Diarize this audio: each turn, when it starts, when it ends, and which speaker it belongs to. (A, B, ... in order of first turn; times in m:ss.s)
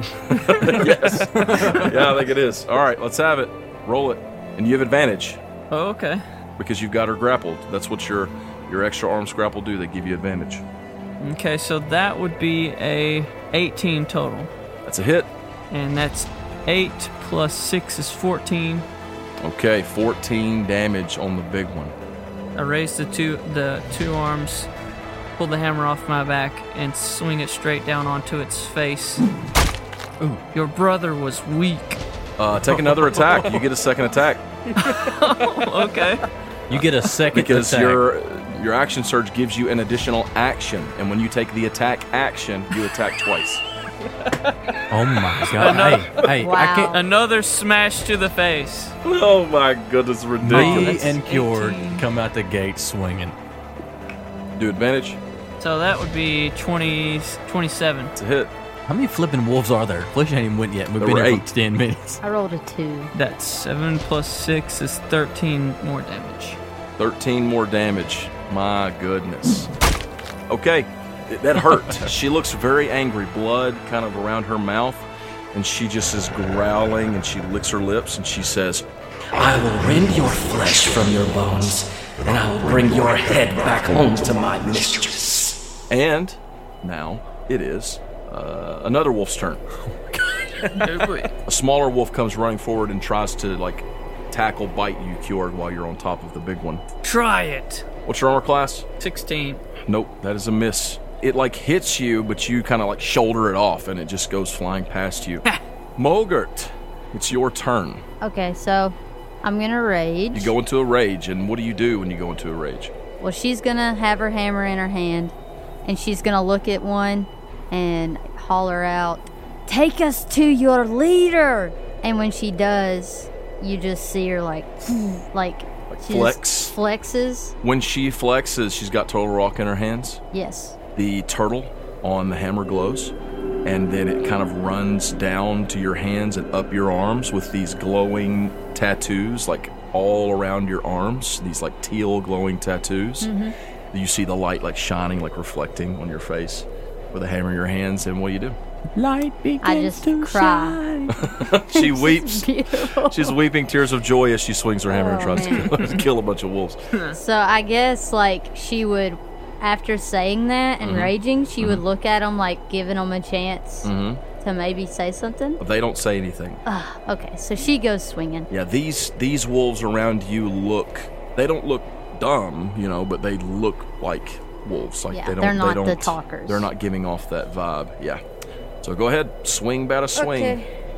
0:00.2-0:05.4 A
0:00.6-0:02.1 B
0:05.7-0:06.2 C
0:06.6-0:10.6 A
0:11.2-0:14.5 C
0:14.9-0:15.3 A
0:15.7-0:18.9 C
0:19.4-0:22.0 A
0:22.6-0:24.7 C
0:25.4-0:29.2 C
0:30.5-0:32.0 C
0:32.4-0:34.4 A
0:34.8-0:36.2 C
0:36.7-0:38.0 B
0:36.7-0:43.6 A
0:44.9-0:47.0 B
0:45.6-0:46.3 C
0:46.4-0:47.0 D
0:46.9-0:49.0 C
0:49.0-0:51.2 A
0:50.4-0:53.4 B
0:50.5-0:52.0 C
0:54.6-0:55.2 A
0:55.6-0:58.1 C
0:58.2-0:58.5 A
0:58.9-1:02.2 B
1:01.0-1:01.5 A
1:02.2-1:03.1 D
1:03.2-1:06.6 C
1:07.0-1:09.7 A
1:10.5-1:18.9 A
1:19.3-1:25.6 E
1:25.9-1:29.6 A
1:30.1-1:30.9 B
1:30.7-1:31.3 C
1:31.4-1:36.8 A
1:37.0-1:37.8 C
1:38.1-1:38.9 A
1:39.0-1:39.6 C
1:39.8-1:45.4 A
1:46.0-1:48.0 A
1:48.2-1:50.5 D
1:50.3-1:52.9 A
1:53.2-2:07.6 D
2:05.9-2:06.8 A
2:07.6-2:10.2 A
2:10.3-2:10.8 D
2:11.0-2:13.1 A
2:13.6-2:23.4 A
2:23.2-2:23.6 D
2:23.9-2:28.6 A
2:29.0-2:31.2 B
2:29.6-2:30.8 D
2:31.1-2:36.8 A
2:31.7-2:33.4 D
2:34.9-2:35.8 D
2:35.4-2:35.8 C
2:36.9-2:37.2 C
2:37.2-2:45.6 D
2:40.8-2:41.8 A
2:43.8-2:44.2 A
2:45.6-2:46.6 A
2:46.7-2:48.5 D
2:48.5-2:58.2 A
2:55.1-2:56.7 D
2:58.8-3:00.6 A
3:00.2-3:00.7 D